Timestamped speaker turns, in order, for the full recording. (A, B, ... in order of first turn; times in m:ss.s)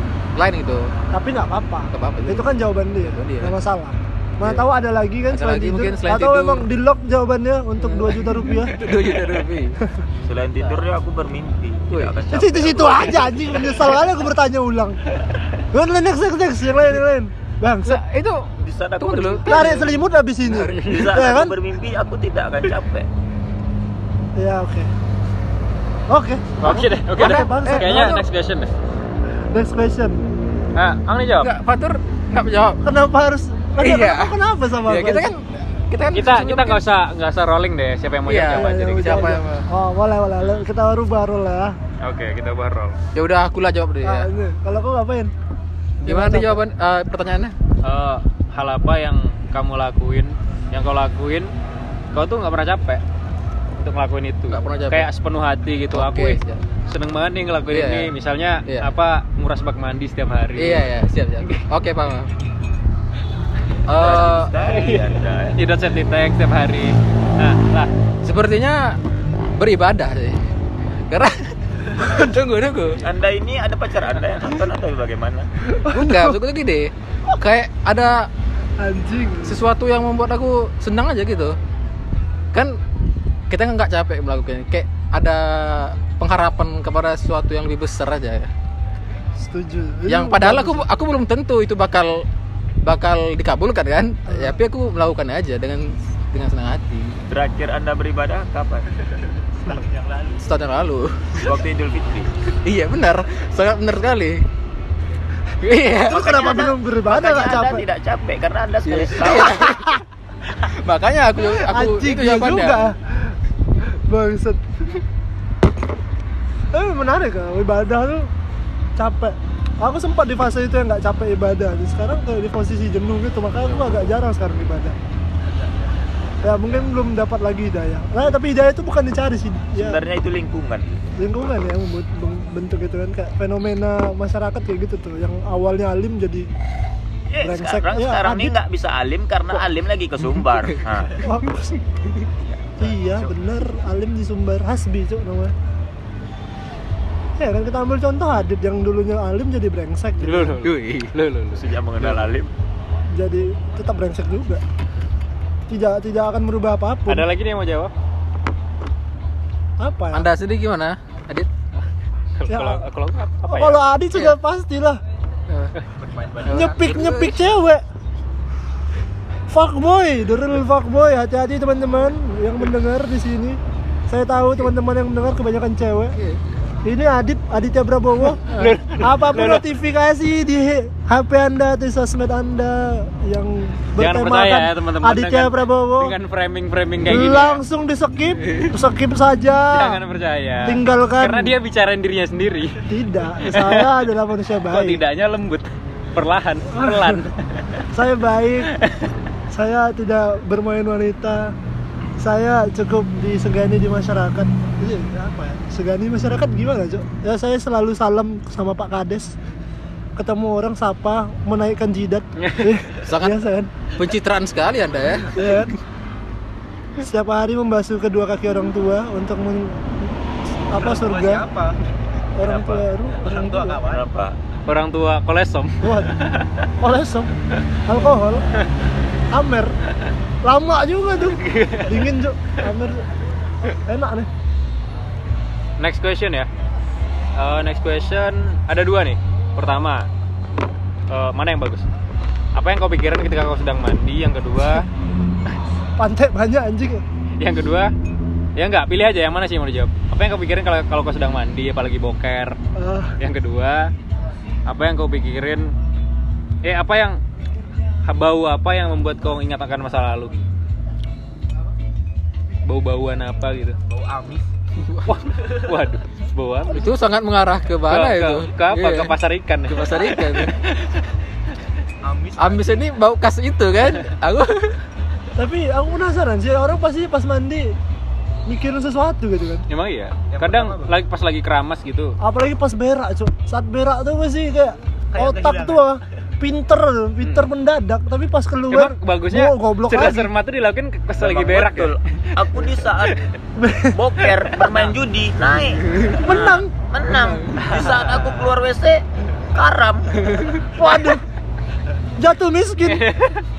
0:00.4-0:00.9 A
0:01.1-0:08.8 B
0:01.9-0:03.6 A
0:04.4-0:04.7 A
0:05.3-0:06.7 A
0:07.8-0:09.8 A
0:10.2-0:13.9 C
0:11.9-0:12.2 A
0:12.3-0:15.0 B
0:15.7-0:18.0 B
0:17.8-0:20.0 A
0:18.6-0:19.8 C
0:19.5-0:21.6 B
0:20.5-0:21.1 A
0:20.8-0:23.1 C
0:24.4-0:24.9 B
0:26.1-0:28.3 B
0:26.6-0:28.7 D
0:27.2-0:28.2 A
0:29.5-0:30.2 B
0:30.8-0:31.5 D
0:31.4-0:32.8 A
0:32.8-0:35.4 B
0:33.8-0:36.8 A
0:36.1-0:39.4 D
0:38.3-0:39.7 A
0:38.4-0:41.8 B
0:42.0-0:43.0 D
0:43.1-0:44.3 A
0:44.0-0:45.3 B
0:46.0-0:46.6 B
0:46.0-0:47.6 A
0:47.8-0:51.5 D
0:52.1-0:53.0 D
0:53.8-1:00.9 D
0:54.5-0:55.1 A
0:55.9-0:56.6 A
0:57.7-0:58.1 A
1:00.6-1:02.3 A
1:03.9-1:04.5 A
1:04.0-1:05.6 C
1:04.1-1:07.9 D
1:08.2-1:09.0 A
1:09.6-1:10.4 A
1:11.1-1:13.0 A
1:13.0-1:15.5 C
1:15.7-1:16.4 B
1:15.9-1:18.3 A
1:18.8-1:19.6 B
1:19.4-1:21.6 A
1:23.5-1:28.5 A
1:29.4-1:30.9 B
1:30.1-1:32.3 A
1:32.8-1:37.2 A
1:34.3-1:34.6 B
1:37.3-1:38.9 C
1:39.7-1:40.5 E
1:40.4-1:41.6 A
1:41.4-1:42.3 C
1:42.6-1:44.4 A
1:45.6-1:46.2 A
1:46.1-1:47.8 B
1:46.1-1:49.8 C
1:48.8-1:49.8 A
1:49.6-1:50.0 B
1:50.7-1:52.9 A
1:51.4-1:55.0 B
1:56.7-1:58.3 B
1:59.0-2:05.0 B
2:05.5-2:05.9 E
2:06.4-2:10.0 B
2:09.7-2:10.9 C
2:11.2-2:16.5 B
2:17.3-2:21.3 C
2:17.4-2:18.6 B
2:21.2-2:21.8 B
2:22.8-2:25.5 B
2:27.4-2:30.6 B
2:30.2-2:32.1 D
2:30.6-2:31.1 A
2:31.5-2:32.5 C
2:33.2-2:34.6 B
2:35.7-2:37.3 B
2:37.1-2:37.9 D
2:39.8-2:40.3 B
2:40.1-2:41.5 A
2:42.4-2:43.8 D
2:42.5-2:42.8 B
2:43.4-2:45.0 B
2:46.0-2:46.8 E
2:46.4-2:47.5 A
2:46.5-2:47.8 B
2:49.5-2:56.2 B
2:56.8-3:06.2 B
2:58.5-2:59.7 D
3:04.0-3:07.6 D
3:07.0-3:10.0 B
3:09.7-3:12.8 D
3:10.6-3:11.6 B
3:12.9-3:15.0 B
3:13.4-3:14.0 D
3:14.7-3:17.8 D
3:16.7-3:17.3 B
3:17.9-3:18.7 B
3:18.8-3:19.1 D
3:19.5-3:21.6 B
3:22.2-3:29.4 B
3:30.2-3:33.7 B
3:32.4-3:32.8 D
3:33.0-3:33.4 A
3:34.0-3:35.7 A
3:35.3-3:35.7 B
3:37.0-3:41.5 B
3:40.7-3:41.8 E
3:42.4-3:43.8 B
3:42.5-3:44.1 E
3:43.8-3:44.4 C
3:44.7-3:46.1 D
3:45.8-3:46.3 B
3:46.8-3:47.3 B
3:47.9-3:48.5 B
3:49.3-3:49.8 B
3:50.4-3:53.1 B
3:51.3-3:52.1 D
3:53.7-3:54.3 B
3:55.8-3:56.5 D
3:57.4-4:00.1 D
4:01.1-4:01.9 D
4:02.6-4:04.9 D
4:06.0-4:07.0 B
4:07.4-4:07.9 D
4:08.6-4:12.6 D
4:12.8-4:13.2 B
4:13.2-4:13.9 D
4:14.7-4:15.7 D
4:16.6-4:17.2 D
4:18.1-4:20.4 D
4:22.6-4:23.8 D
4:23.9-4:24.5 E
4:25.1-4:26.9 D
4:26.7-4:29.2 A
4:27.9-4:30.6 D
4:29.7-4:30.6 A
4:32.0-4:32.9 E
4:32.4-4:34.8 A
4:35.4-4:37.8 B
4:38.5-4:39.6 B
4:39.7-4:42.2 D
4:40.3-4:41.0 E
4:42.2-4:50.3 B
4:45.1-4:46.0 E
4:47.2-4:47.5 D
4:48.7-4:53.2 D
4:51.2-4:53.3 C
4:53.6-4:54.2 B
4:53.9-5:00.8 C
4:54.6-4:54.9 D
4:56.1-4:56.7 B
4:57.6-4:58.1 D
5:00.7-5:01.2 B
5:02.2-5:03.1 B
5:02.9-5:03.4 D